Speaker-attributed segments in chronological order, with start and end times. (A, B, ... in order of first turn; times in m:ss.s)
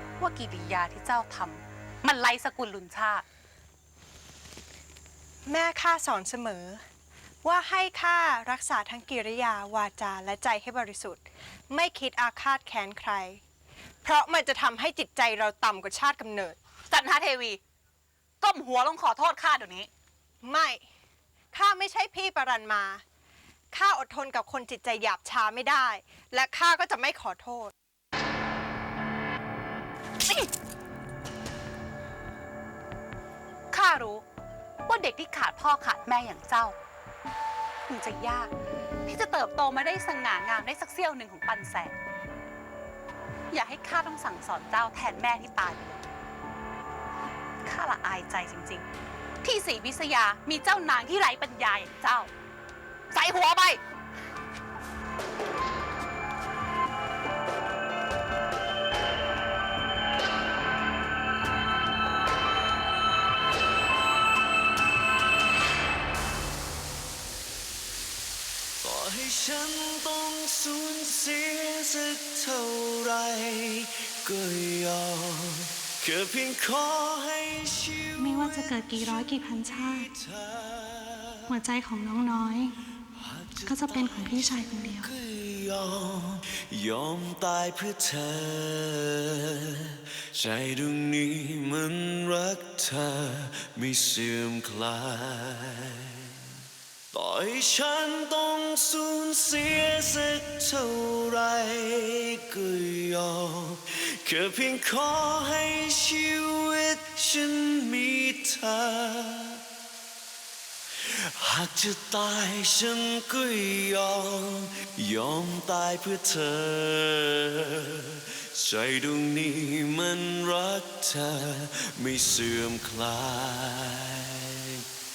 0:00.2-0:03.2 A
0:05.4-0:06.8 B
0:07.4-0:13.4 B
0:14.0-0:16.6 B
0:16.9-0:17.6 A
0:18.4-0:19.9 A
0:20.4-0:20.8 B
0:21.5-0:23.0 B
0:23.7-0:27.7 B
0:33.7-0:34.2 A
0:34.9-0:36.8 A
0:37.9-0:38.5 A
0:39.1-0:41.9 A
0:43.5-0:46.0 A
0:47.6-0:48.9 A
0:49.4-0:52.3 A
0:53.1-0:53.8 A
1:08.8-1:21.6 C
1:18.3-1:20.0 D
1:21.6-1:21.9 D
1:23.1-1:36.5 C
1:37.1-1:49.6 C
1:51.0-2:04.9 C